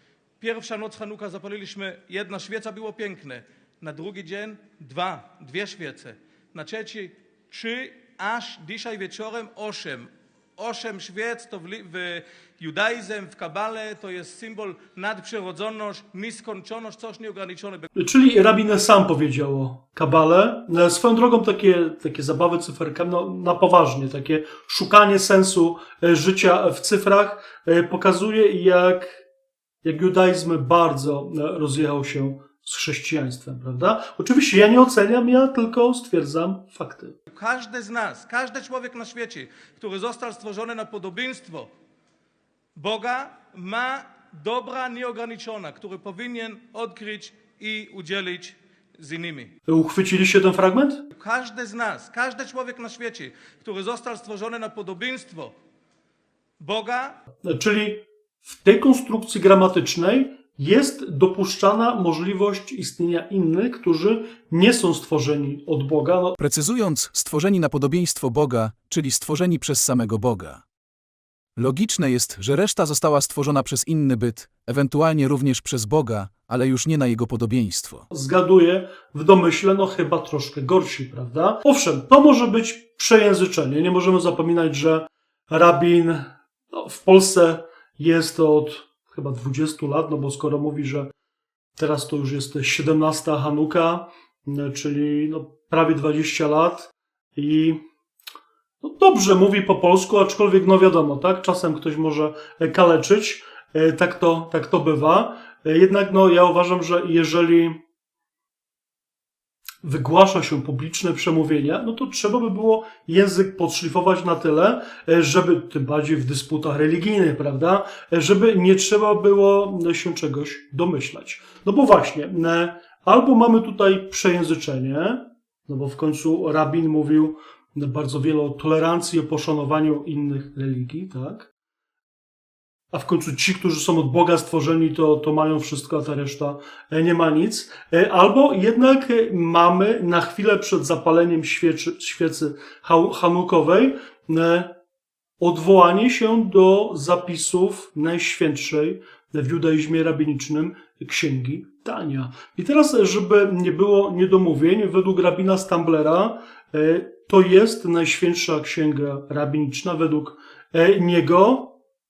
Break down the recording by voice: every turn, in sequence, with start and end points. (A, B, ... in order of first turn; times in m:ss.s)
0:00.4-0:17.9 A
0:18.0-0:29.2 B
0:29.8-0:37.2 B
0:37.3-0:41.7 A
0:42.8-0:49.5 A
0:49.7-0:51.0 B
0:51.1-0:55.5 A
0:56.6-0:57.2 A
0:57.4-1:06.4 B
1:06.4-1:10.6 C
1:11.6-1:18.1 C
1:18.1-1:31.1 B
1:31.8-1:37.8 B
1:38.8-1:47.8 B
1:49.8-2:11.5 B
2:12.9-2:24.7 B
2:25.4-2:41.8 B